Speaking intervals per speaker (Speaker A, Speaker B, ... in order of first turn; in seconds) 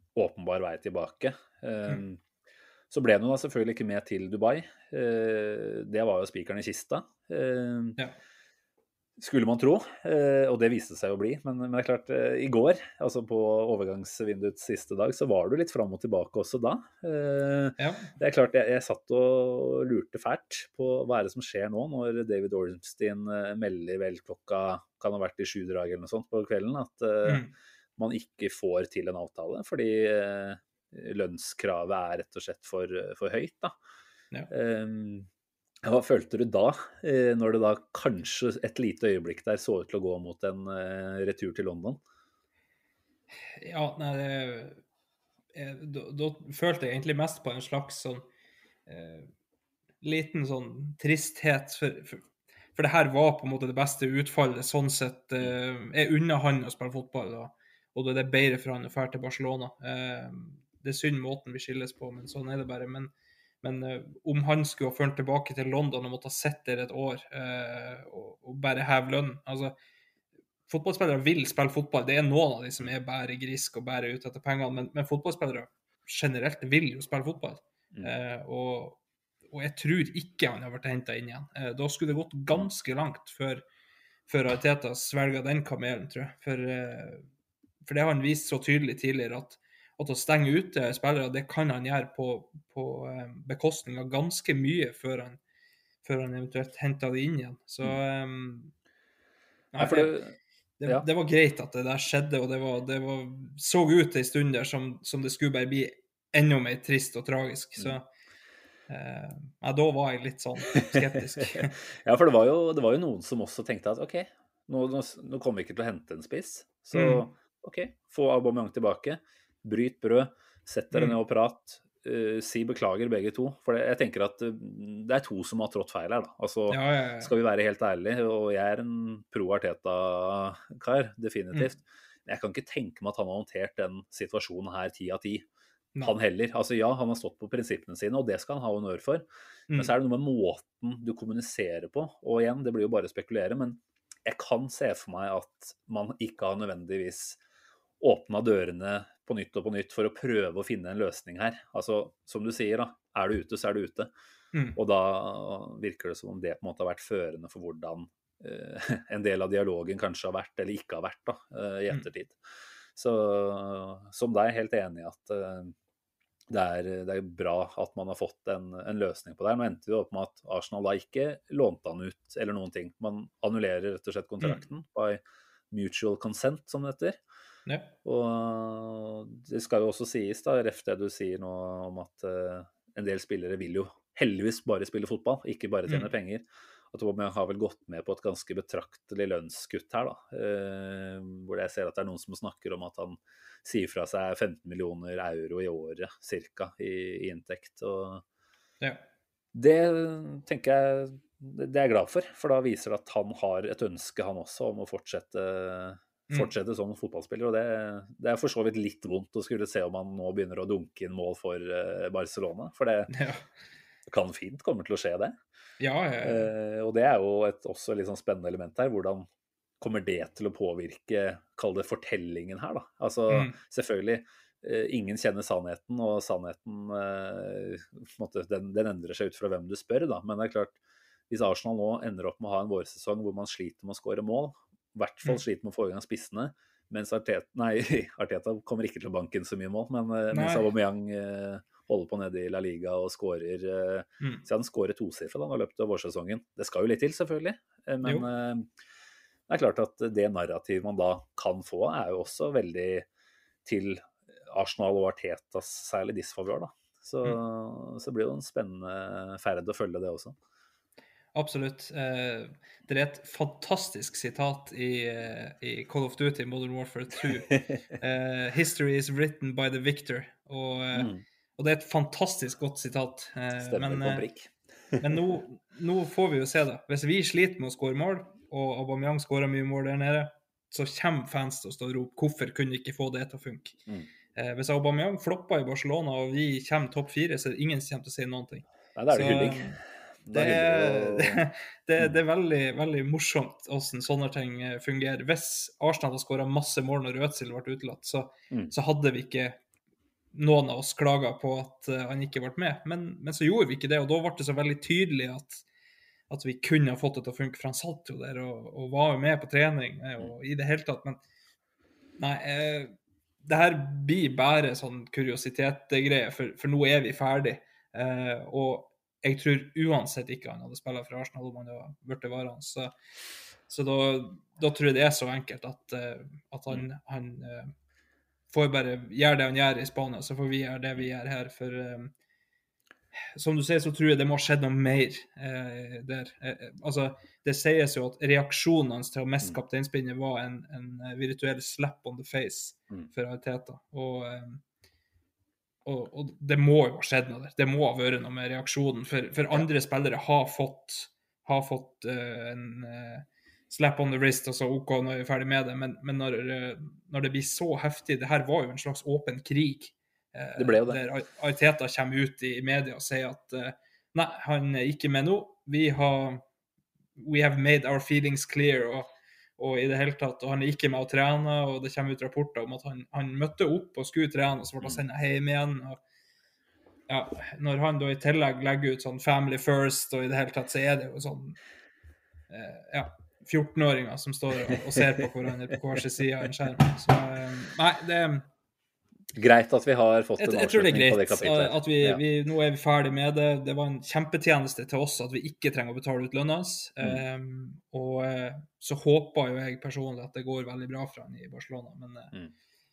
Speaker A: 0.1-2.2, 2.9-8.0, 9.2-33.7, 34.5-35.3, 35.8-42.0, 99.8-100.3, 110.8-135.4, 136.0-147.4, 148.0-154.1, 154.8-162.4, 162.9-165.7, 166.5-177.2, 178.0-198.2, 199.5-213.1, 214.1-215.3, 216.2-219.3, 219.8-230.8, 231.3-248.7, 249.5-253.1, 253.6-260.3, 267.5-267.8, 270.9-271.2, 273.6-275.1, 288.9-291.4, 360.6-361.0, 389.3-392.2
Speaker B: 17.8-18.1, 27.2-27.5, 43.6-44.8, 45.5-48.2, 48.9-49.3, 50.0-52.2, 52.7-69.7, 70.7-79.0, 79.5-83.6, 84.3-87.2, 87.8-95.4, 96.0-98.7, 99.7-100.1, 100.8-108.0, 108.9-111.8, 116.9-117.2, 120.9-121.2, 126.7-127.3, 177.7-177.9, 213.1-213.4, 215.8-216.5, 223.3-223.6, 240.3-240.7, 261.3-274.2, 275.0-283.8, 284.3-289.8, 290.3-299.6, 300.3-305.6, 306.3-311.2, 312.2-312.9, 313.4-322.9, 323.7-327.7, 328.5-332.1, 333.3-344.6, 345.8-366.4, 367.2-376.0, 377.1-381.6, 382.5-388.4, 390.4-402.3